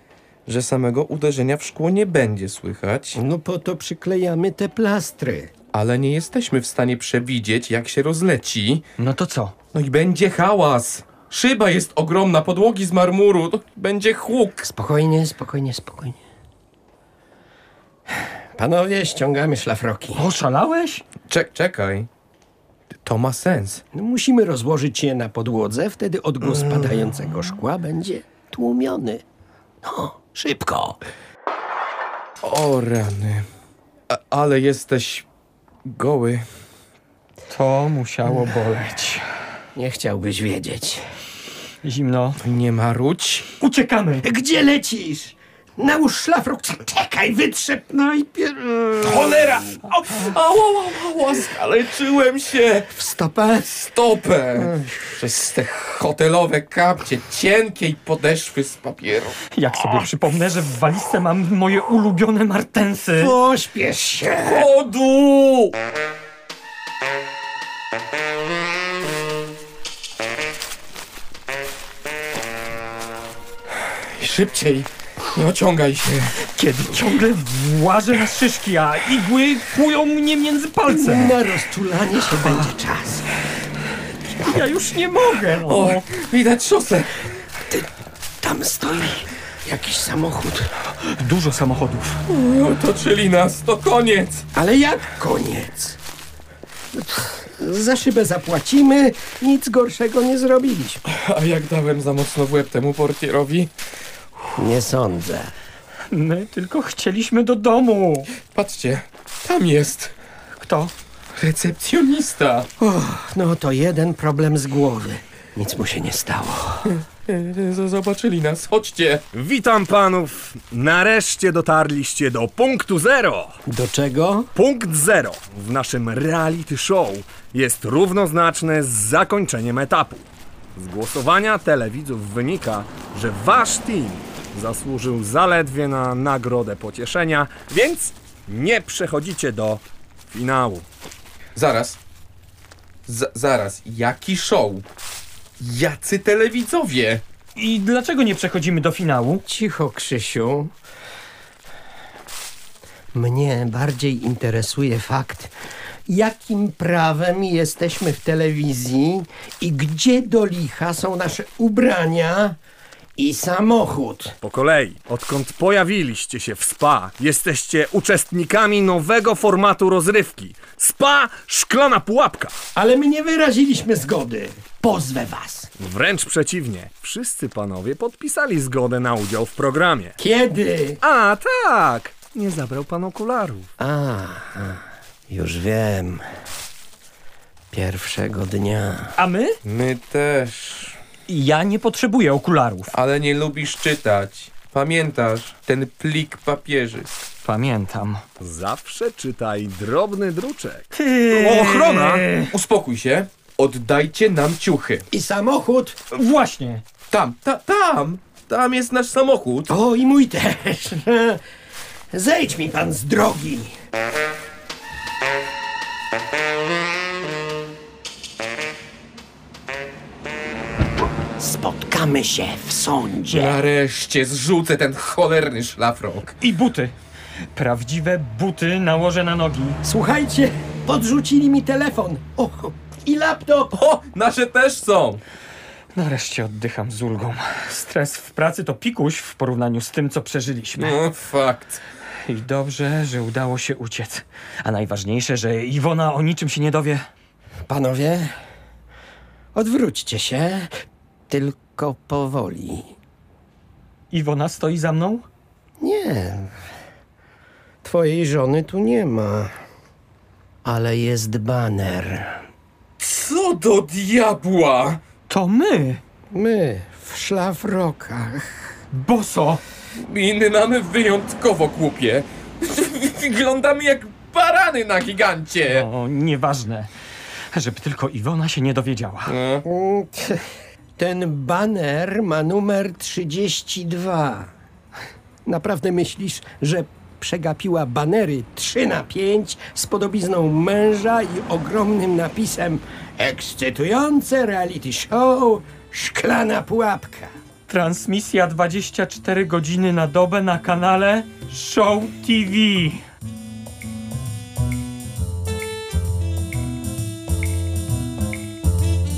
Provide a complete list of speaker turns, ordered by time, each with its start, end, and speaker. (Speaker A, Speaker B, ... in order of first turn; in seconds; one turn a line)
Speaker A: 0.5-3.2
Speaker B: 3.1-5.5
Speaker A: 5.7-8.8
Speaker C: 9.0-9.6
Speaker A: 9.7-14.6
Speaker B: 14.6-16.2
Speaker B: 18.6-20.3
Speaker C: 20.2-21.0
Speaker A: 21.3-22.1
Speaker A: 23.1-23.8
Speaker B: 23.9-29.2
Speaker B: 29.8-31.0
Speaker A: 32.4-33.5
Speaker A: 34.1-35.3
Speaker A: 35.9-36.5
Speaker C: 37.5-39.2
Speaker B: 39.8-41.0
Speaker C: 41.8-42.4
Speaker A: 42.4-43.5
Speaker C: 43.6-44.2
Speaker B: 44.2-49.6
Speaker A: 49.0-52.9
Speaker B: 52.9-53.8
Speaker A: 53.7-59.4
Speaker B: 54.6-55.0
Speaker C: 59.5-63.3
Speaker B: 63.2-64.7
Speaker A: 64.4-65.7
Speaker A: 74.2-76.4
Speaker C: 76.5-81.3
Speaker B: 80.9-83.3
Speaker C: 82.3-82.7
Speaker C: 84.4-86.0
Speaker A: 85.7-87.2
Speaker B: 88.4-90.7
Speaker C: 91.0-92.2
Speaker A: 92.3-94.5
Speaker B: 94.5-96.0
Speaker B: 96.9-101.0
Speaker A: 101.1-103.7
Speaker B: 104.6-105.5
Speaker C: 106.1-108.3
Speaker A: 108.5-110.1
Speaker C: 110.6-110.9
Speaker A: 111.4-112.7
Speaker B: 112.8-117.0
Speaker A: 117.3-119.2
Speaker D: 119.3-123.6
Speaker B: 123.7-124.5
Speaker D: 124.5-140.9
Speaker A: 141.6-142.0
Speaker A: 143.1-144.8
Speaker A: 145.6-147.2
Speaker C: 147.6-149.4
Speaker B: 149.4-150.7
Speaker B: 153.1-155.5
Speaker B: 156.1-162.6
Speaker B: 163.2-164.3
Speaker D: 164.4-172.6
Speaker B: 172.8-175.7
Speaker D: 175.8-180.2
Speaker B: 180.2-181.0
Speaker D: 181.0-183.7
Speaker B: 183.8-186.2
Speaker B: 187.7-189.2
Speaker C: 189.2-189.6
Speaker A: 189.6-191.0
Speaker C: 191.3-192.9
Speaker A: 192.9-197.1
Speaker C: 197.4-198.2
Speaker D: 198.4-202.3
Speaker C: 200.9-202.5
Speaker A: 202.4-205.1
Speaker B: 205.1-206.0
Speaker C: 206.1-206.8
Speaker A: 207.1-209.7
Speaker B: 209.7-211.4
Speaker B: 212.1-213.8
Speaker B: 221.4-223.6
Speaker A: 223.3-226.4
Speaker C: 226.4-226.9
Speaker C: 227.6-229.8
Speaker B: 229.8-233.8
Speaker A: 233.7-235.2
Speaker C: 235.9-241.0
Speaker A: 240.8-241.8
Speaker C: 242.3-247.1
Speaker B: 247.7-248.3
Speaker B: 249.5-250.7
Speaker B: 251.3-252.9
Speaker C: 254.1-255.2
Speaker B: 255.8-256.5
Speaker B: 257.8-259.5
Speaker B: 260.6-262.4
Speaker A: 263.0-265.0
Speaker C: 265.3-266.0
Speaker B: 266.3-268.8
Speaker C: 268.9-269.6
Speaker A: 270.0-275.9
Speaker C: 275.7-276.9
Speaker C: 277.5-279.4
Speaker A: 279.3-279.6
Speaker B: 279.7-280.4
Speaker B: 281.0-284.5
Speaker B: 285.5-297.4
Speaker C: 297.7-303.0